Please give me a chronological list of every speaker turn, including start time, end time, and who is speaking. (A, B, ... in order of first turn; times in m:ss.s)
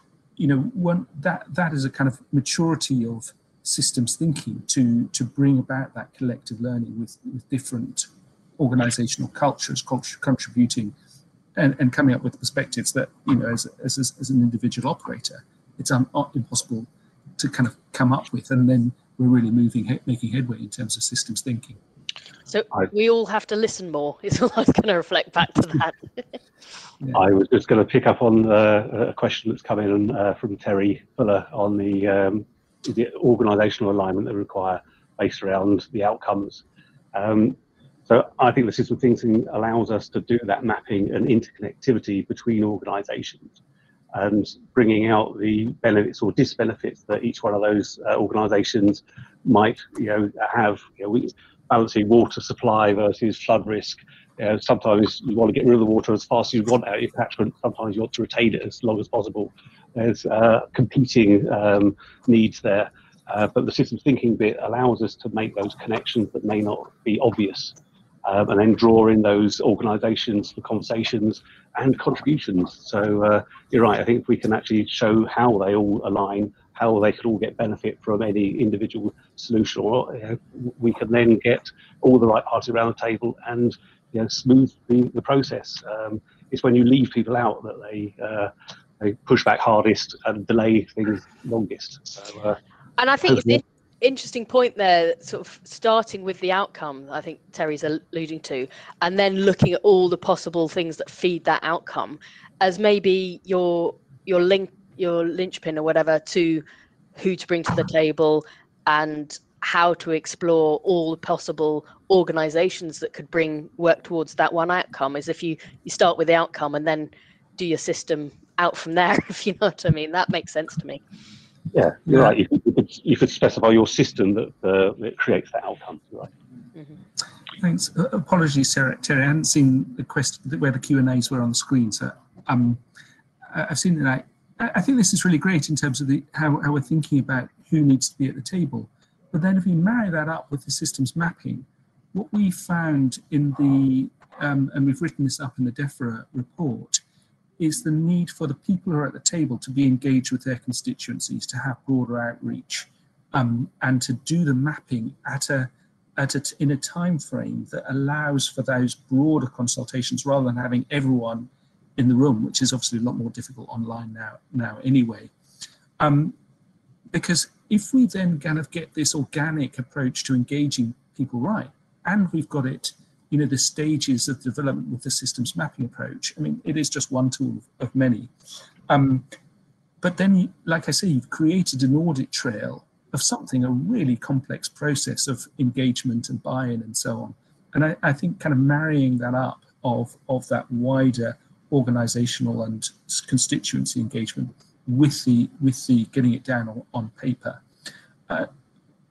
0:00.4-0:11.0 A
0:11.6-0:21.8 A
0:22.5-0:26.4 B
0:27.1-0:36.6 C
0:37.1-0:37.6 C
0:38.1-0:43.6 C
0:44.1-1:32.6 C
1:33.0-1:46.6 B
1:33.3-1:33.6 C
1:47.2-2:01.0 B
2:01.7-2:06.3 C
2:02.1-2:02.4 A
2:07.6-2:12.8 A
2:13.5-2:27.0 A
2:27.6-2:45.3 A
2:46.0-2:46.4 A
2:47.1-2:58.3 A
2:58.9-2:59.3 A
3:00.0-3:17.6 A